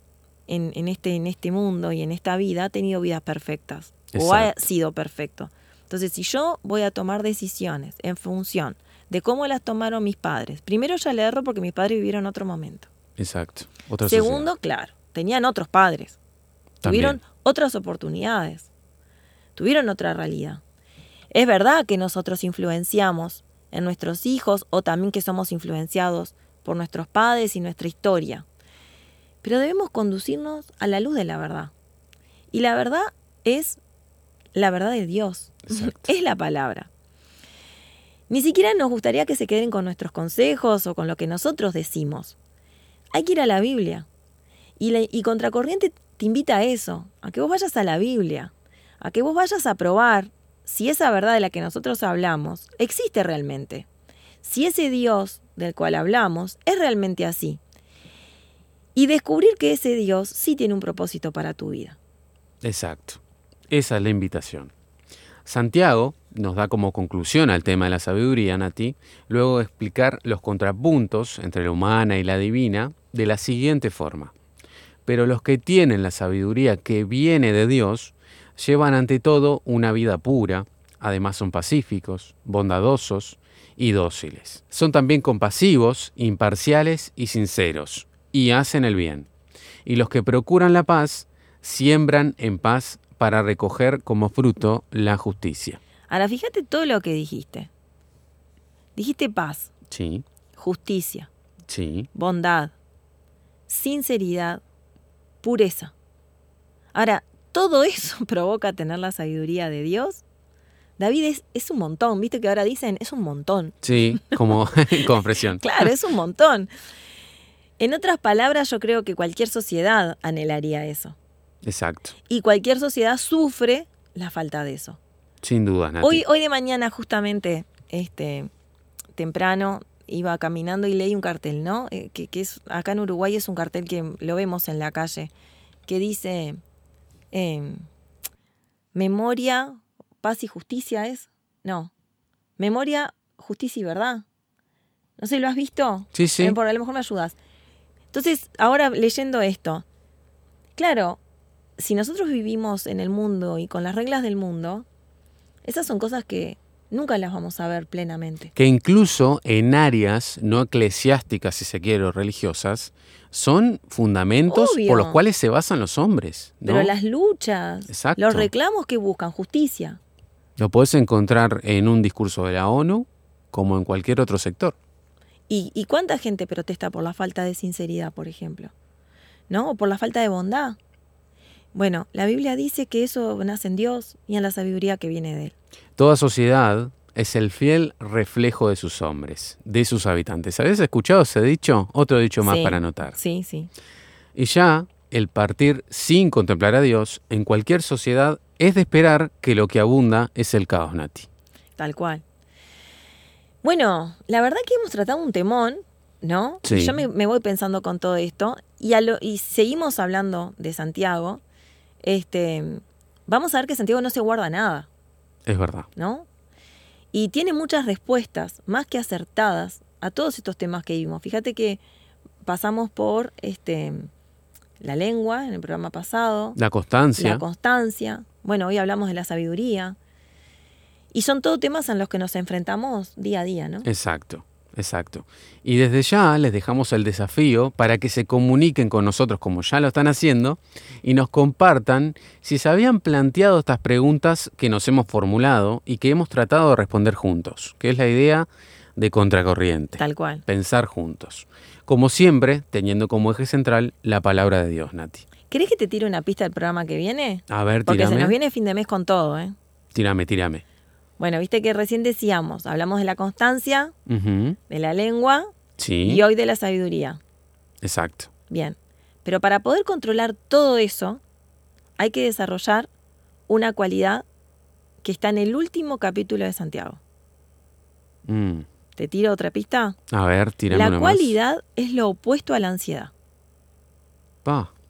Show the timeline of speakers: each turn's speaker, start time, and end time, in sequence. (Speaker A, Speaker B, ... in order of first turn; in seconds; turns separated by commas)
Speaker A: 0.5-12.9, Speaker B: 4.1-4.6, Speaker B: 13.2-14.5, Speaker A: 14.0-16.2, Speaker B: 16.8-17.2, Speaker A: 16.8-18.7, Speaker A: 19.6-20.6, Speaker A: 21.3-28.4, Speaker A: 29.4-31.7, Speaker A: 32.5-33.8, Speaker A: 34.5-36.9, Speaker B: 35.7-36.1, Speaker A: 38.3-42.4, Speaker A: 43.1-44.1, Speaker A: 44.8-53.9, Speaker A: 54.4-57.6, Speaker A: 58.9-62.0, Speaker B: 62.6-64.7, Speaker B: 65.4-74.3, Speaker B: 75.0-89.3, Speaker B: 89.8-95.8, Speaker A: 96.1-97.7, Speaker A: 99.0-99.7, Speaker B: 99.9-100.2, Speaker A: 100.5-101.3, Speaker B: 101.7-102.1, Speaker A: 102.1-102.7, Speaker A: 103.7-104.6, Speaker A: 105.4-105.9, Speaker A: 106.9-110.2, Speaker A: 111.0-114.4, Speaker B: 113.8-115.9, Speaker A: 115.6-116.7, Speaker A: 117.8-121.2, Speaker B: 121.6-122.1, Speaker A: 122.3-125.0, Speaker B: 125.4-126.2, Speaker A: 126.0-128.5, Speaker A: 129.2-135.3, Speaker A: 135.9-136.6, Speaker A: 137.3-137.9, Speaker A: 138.9-141.9, Speaker A: 142.6-144.2, Speaker A: 145.2-147.3, Speaker B: 146.1-146.6, Speaker A: 148.1-149.8, Speaker A: 150.8-151.2, Speaker A: 151.8-154.8, Speaker A: 155.6-158.5, Speaker B: 158.5-166.9, Speaker A: 164.5-165.2, Speaker A: 166.6-170.0, Speaker B: 167.9-168.5, Speaker B: 170.6-174.8, Speaker A: 175.5-178.7, Speaker A: 179.5-180.8, Speaker A: 181.7-185.5, Speaker B: 186.0-193.2, Speaker A: 192.4-193.7, Speaker B: 194.3-201.3, Speaker A: 201.8-202.2, Speaker A: 203.6-211.4, Speaker B: 206.6-207.0, Speaker A: 212.0-214.9, Speaker B: 215.4-215.9, Speaker A: 215.9-216.3, Speaker A: 217.1-221.8, Speaker A: 222.4-224.1, Speaker A: 224.8-226.6, Speaker B: 226.6-227.4, Speaker A: 227.2-229.9, Speaker A: 231.1-233.9, Speaker B: 233.8-255.2, Speaker A: 250.0-250.4, Speaker A: 255.5-259.5, Speaker B: 257.5-258.4, Speaker B: 259.9-260.6, Speaker A: 261.2-263.9, Speaker B: 264.1-264.6, Speaker A: 264.7-265.5, Speaker B: 265.8-266.2, Speaker A: 266.0-267.2, Speaker B: 267.8-268.3, Speaker A: 268.5-271.2, Speaker A: 272.0-272.9, Speaker A: 273.5-274.2, Speaker A: 275.0-277.0, Speaker B: 278.2-278.7, Speaker A: 278.9-280.0, Speaker B: 280.1-281.4, Speaker A: 280.7-283.1, Speaker B: 284.4-284.7